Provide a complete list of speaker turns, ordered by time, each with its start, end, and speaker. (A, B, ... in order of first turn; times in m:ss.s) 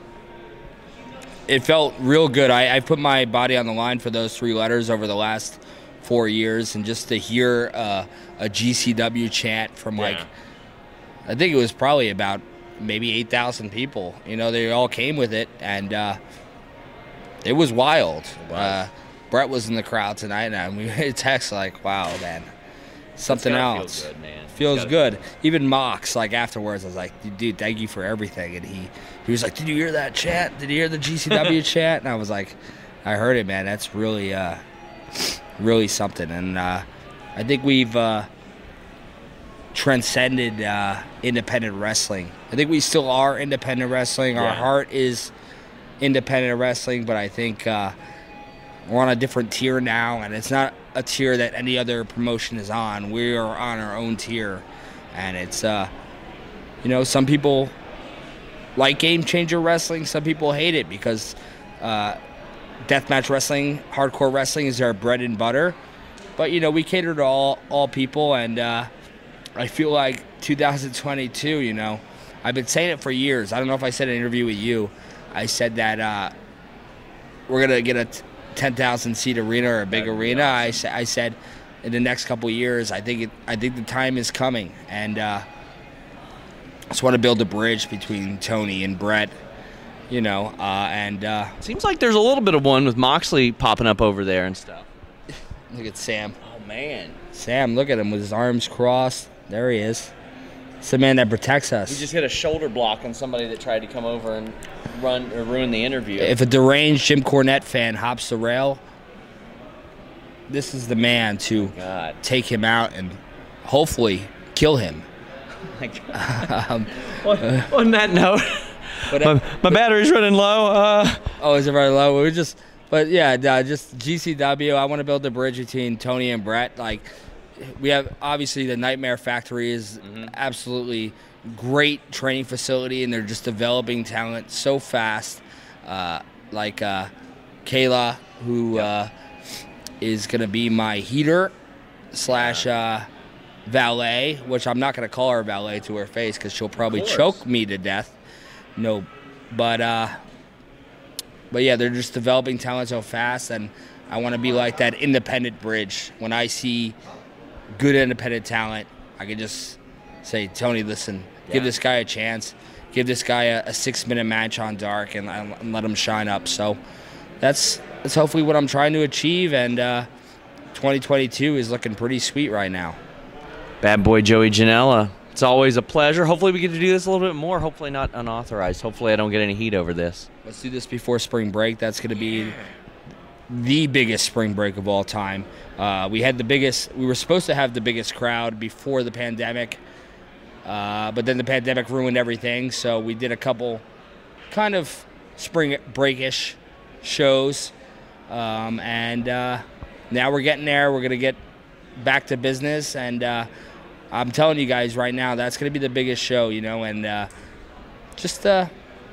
0:01.5-0:10.3 A
0:10.0-0:10.3 B
0:11.3-0:16.2 A
0:17.4-0:22.5 A
0:18.4-0:18.9 B
0:23.2-0:34.6 A
0:23.3-0:25.1 B
0:35.2-0:38.3 A
0:39.7-0:45.3 A
0:44.3-0:44.7 B
0:46.0-0:48.0 A
0:48.9-0:55.9 A
0:56.8-0:57.8 A
0:58.8-1:02.2 A
1:02.8-1:05.8 A
1:06.4-1:08.9 A
1:09.6-1:16.3 A
1:17.5-1:25.5 A
1:19.9-1:20.8 B
1:26.9-1:29.3 A
1:30.1-1:31.5 A
1:31.6-1:34.9 B
1:35.7-1:36.4 A
1:36.4-1:37.2 B
1:37.3-1:40.1 A
1:40.8-1:42.1 A
1:41.9-1:46.4 B
1:46.2-1:48.8 A
1:50.5-1:55.1 A
1:51.5-1:52.2 B
1:55.8-1:56.5 B
1:56.1-1:57.7 A
1:57.1-2:01.2 B
1:59.1-1:59.8 A
2:01.4-2:17.1 A
2:10.0-2:10.3 B
2:17.6-2:19.1 A
2:20.0-2:21.6 A
2:22.1-2:23.1 A
2:22.3-2:22.7 B
2:23.7-2:28.2 A
2:26.8-2:27.4 B
2:28.8-2:30.1 A
2:31.5-2:37.0 A
2:37.8-2:46.8 A
2:41.5-2:41.7 B
2:47.4-2:50.1 A
2:50.7-2:53.0 A
2:53.8-3:00.3 B
3:00.4-3:02.6 A
3:03.5-3:09.8 A
3:10.6-3:13.8 A
3:14.5-3:17.7 A
3:18.3-3:21.4 A
3:22.0-3:23.5 A
3:24.1-3:27.3 A
3:28.2-3:28.7 A